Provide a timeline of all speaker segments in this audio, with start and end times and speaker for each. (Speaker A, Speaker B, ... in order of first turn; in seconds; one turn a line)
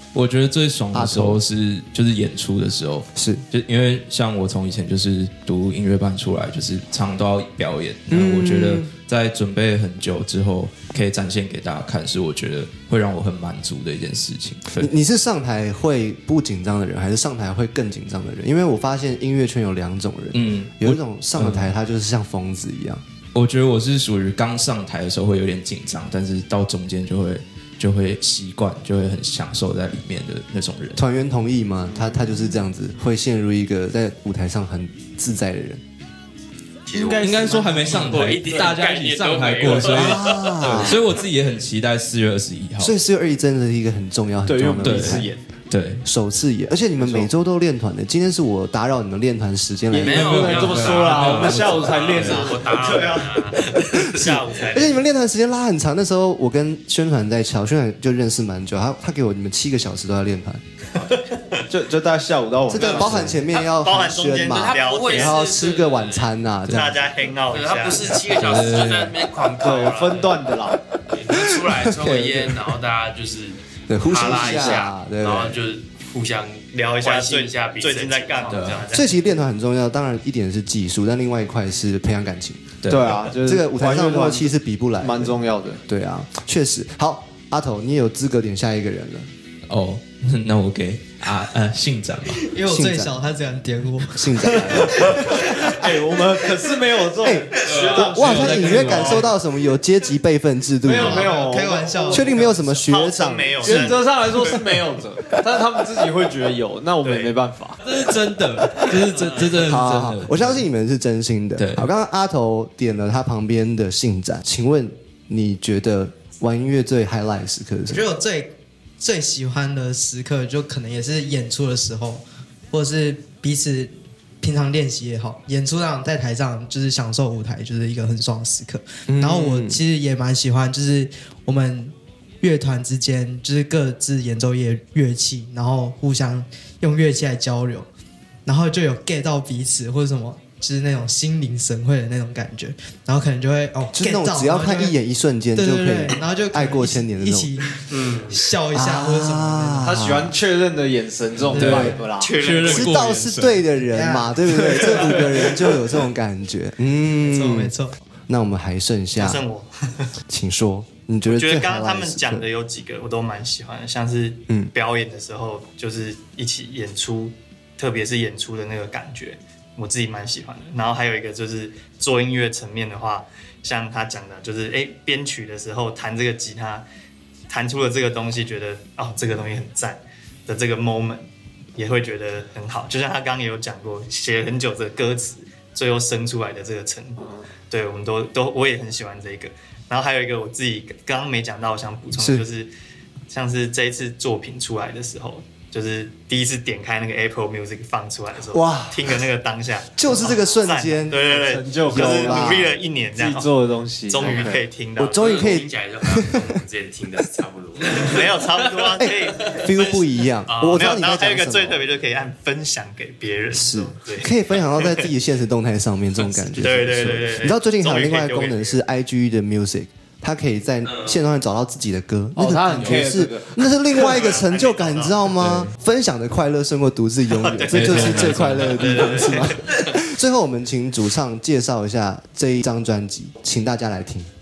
Speaker A: 0.1-14.9
Speaker B: 0.9-1.4
Speaker B: 3.1-3.4
Speaker B: 8.1-8.9
Speaker B: 14.8-23.0
Speaker A: 20.3-21.7
Speaker A: 23.3-31.0
Speaker B: 30.9-35.8
Speaker C: 31.9-32.4
Speaker D: 36.9-41.0
Speaker C: 36.9-38.3
Speaker A: 37.2-42.9
Speaker B: 39.8-41.0
Speaker B: 42.8-45.3
Speaker C: 44.5-45.4
Speaker A: 44.8-46.0
Speaker B: 46.0-50.4
Speaker C: 47.0-47.3
Speaker C: 49.9-53.3
Speaker D: 50.0-54.4
Speaker A: 50.0-52.5
Speaker E: 52.6-55.0
Speaker B: 54.7-60.6
Speaker C: 61.7-63.3
Speaker B: 62.7-66.8
Speaker E: 63.6-65.4
Speaker D: 64.5-66.3
Speaker E: 66.7-68.2
Speaker D: 67.5-70.5
Speaker A: 68.2-69.2
Speaker C: 69.6-70.8
Speaker D: 71.1-78.9
Speaker B: 71.3-72.6
Speaker B: 73.9-75.6
Speaker C: 74.3-74.8
Speaker E: 76.7-79.1
Speaker A: 78.5-78.8
Speaker B: 78.9-82.8
Speaker A: 82.8-83.1
Speaker C: 82.9-85.8
Speaker B: 83.3-89.3
Speaker A: 89.7-92.5
Speaker F: 92.4-95.1
Speaker B: 92.7-93.1
Speaker B: 94.1-95.9
Speaker C: 94.4-99.3
Speaker B: 97.2-101.4
Speaker A: 97.7-99.3
Speaker C: 100.8-102.3
Speaker F: 100.9-102.7
Speaker B: 102.1-104.0
Speaker E: 102.5-104.6
Speaker C: 103.6-107.8
Speaker E: 107.0-107.3
Speaker A: 107.8-110.6
Speaker B: 109.6-118.0
Speaker A: 111.6-111.9
Speaker F: 117.9-137.9
Speaker B: 129.1-129.8
Speaker F: 138.4-144.9
Speaker B: 143.9-147.5
Speaker F: 145.6-147.7
Speaker D: 147.9-148.3
Speaker F: 148.3-149.9
Speaker B: 148.7-150.3
Speaker C: 149.8-152.3
Speaker A: 151.5-153.6
Speaker B: 151.6-151.9
Speaker F: 151.6-151.9
Speaker E: 152.2-153.3
Speaker B: 152.6-157.7
Speaker F: 153.8-154.4
Speaker C: 154.4-155.8
Speaker F: 157.2-158.0
Speaker B: 158.3-159.4
Speaker E: 159.2-160.1
Speaker B: 160.3-162.5
Speaker E: 161.3-176.8
Speaker E: 177.5-192.7
Speaker B: 192.1-192.4
Speaker E: 193.3-203.5
Speaker B: 198.5-199.2
Speaker B: 200.0-202.8
Speaker C: 201.4-204.6
Speaker E: 204.1-205.6
Speaker D: 204.2-204.6
Speaker B: 205.0-206.5
Speaker D: 205.1-208.9
Speaker E: 207.8-215.1
Speaker B: 209.0-211.8
Speaker B: 213.5-234.3
Speaker E: 216.4-218.8
Speaker C: 222.3-223.6
Speaker E: 223.9-225.3
Speaker E: 227.4-229.9
Speaker A: 227.7-229.3